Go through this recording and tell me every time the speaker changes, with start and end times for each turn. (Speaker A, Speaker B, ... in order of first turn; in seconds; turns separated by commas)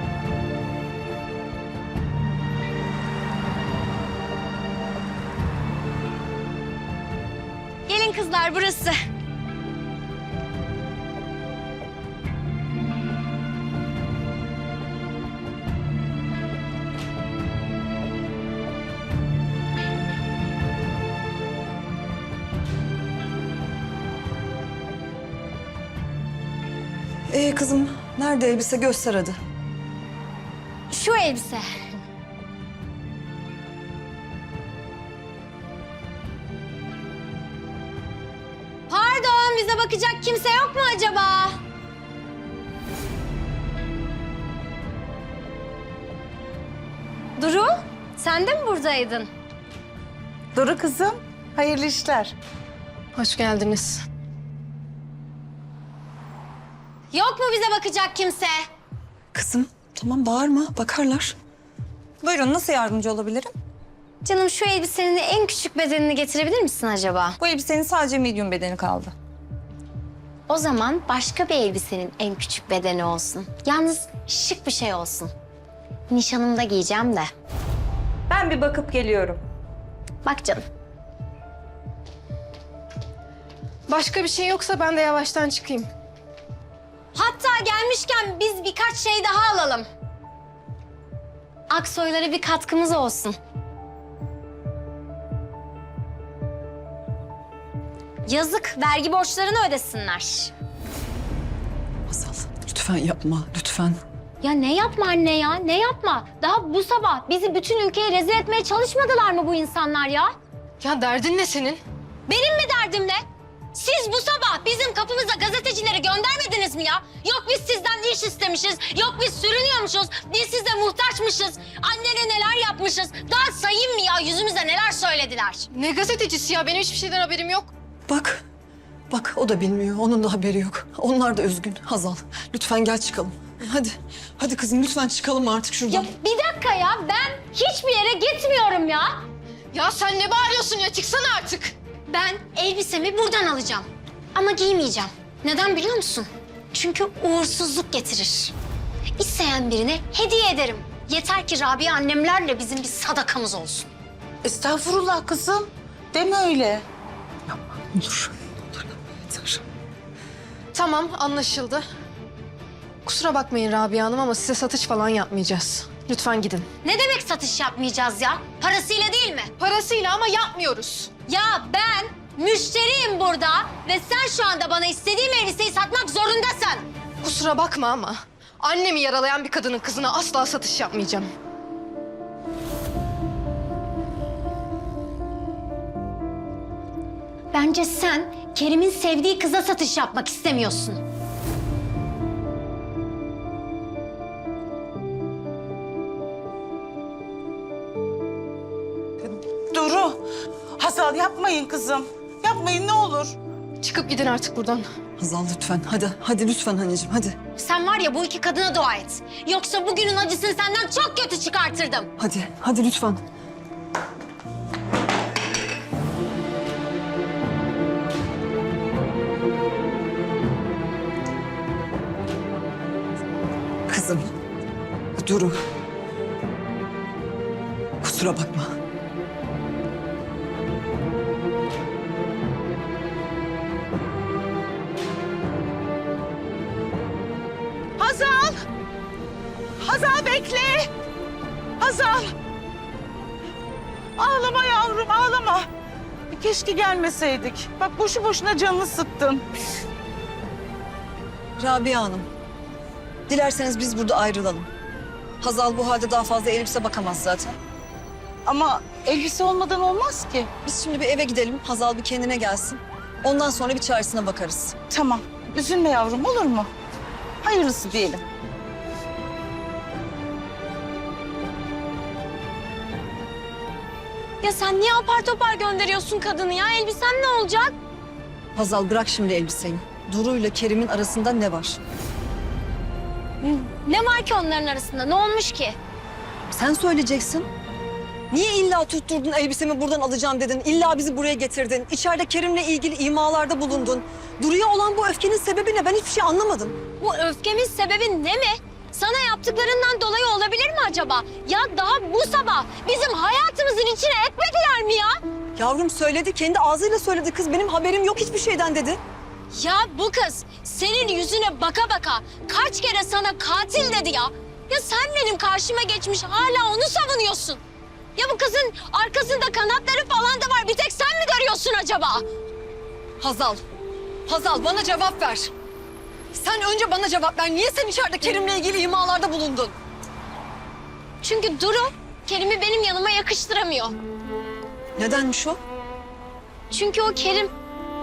Speaker A: 7.9-9.0, Speaker B: 27.3-29.4, Speaker A: 30.9-31.7, Speaker A: 38.9-41.6, Speaker A: 47.4-49.3, Speaker C: 50.5-52.3, Speaker D: 53.1-54.0, Speaker A: 57.1-58.7, Speaker B: 59.3-61.3, Speaker E: 62.2-63.5, Speaker A: 64.2-67.4, Speaker E: 67.4-69.1, Speaker A: 70.5-75.3, Speaker A: 76.1-77.3, Speaker E: 78.3-79.4, Speaker A: 80.2-80.7, Speaker D: 83.9-85.9, Speaker A: 87.1-89.9, Speaker A: 91.7-93.4, Speaker A: 98.2-100.5, Speaker B: 102.1-104.0, Speaker A: 104.4-110.3, Speaker D: 110.8-111.8, Speaker A: 112.3-113.2, Speaker A: 113.7-125.7, Speaker D: 125.7-127.7, Speaker B: 128.1-128.4, Speaker B: 129.1-136.1, Speaker A: 135.9-139.2, Speaker D: 139.7-141.7, Speaker A: 142.1-148.5, Speaker A: 149.2-153.9, Speaker C: 154.4-156.8, Speaker B: 157.5-159.6, Speaker D: 160.7-161.8, Speaker D: 163.0-166.7, Speaker A: 166.8-169.5, Speaker D: 169.6-171.1, Speaker A: 171.3-176.9, Speaker D: 177.2-181.3, Speaker A: 187.5-191.0, Speaker C: 199.2-200.2, Speaker C: 200.8-203.4, Speaker D: 203.8-204.9, Speaker B: 205.2-207.3, Speaker A: 207.6-212.1, Speaker B: 212.2-213.2, Speaker B: 223.9-224.3, Speaker B: 225.2-225.6, Speaker B: 228.0-228.7, Speaker C: 238.0-238.6, Speaker C: 239.8-240.9, Speaker C: 241.8-242.3, Speaker C: 244.2-245.7, Speaker C: 246.3-249.4, Speaker B: 251.6-252.3, Speaker B: 253.3-254.7, Speaker B: 255.4-257.6, Speaker C: 258.4-260.5, Speaker B: 260.6-264.8, Speaker C: 264.9-266.7, Speaker C: 267.4-268.2, Speaker A: 274.4-277.7, Speaker B: 278.6-281.8, Speaker A: 283.4-285.8, Speaker B: 286.5-287.5, Speaker B: 288.3-296.8, Speaker A: 297.0-305.2, Speaker B: 305.6-309.0, Speaker A: 309.5-317.6, Speaker A: 318.1-322.2, Speaker B: 323.2-323.6, Speaker B: 324.2-325.5, Speaker B: 326.3-329.7, Speaker A: 331.2-333.9, Speaker B: 335.0-335.6, Speaker A: 336.7-337.5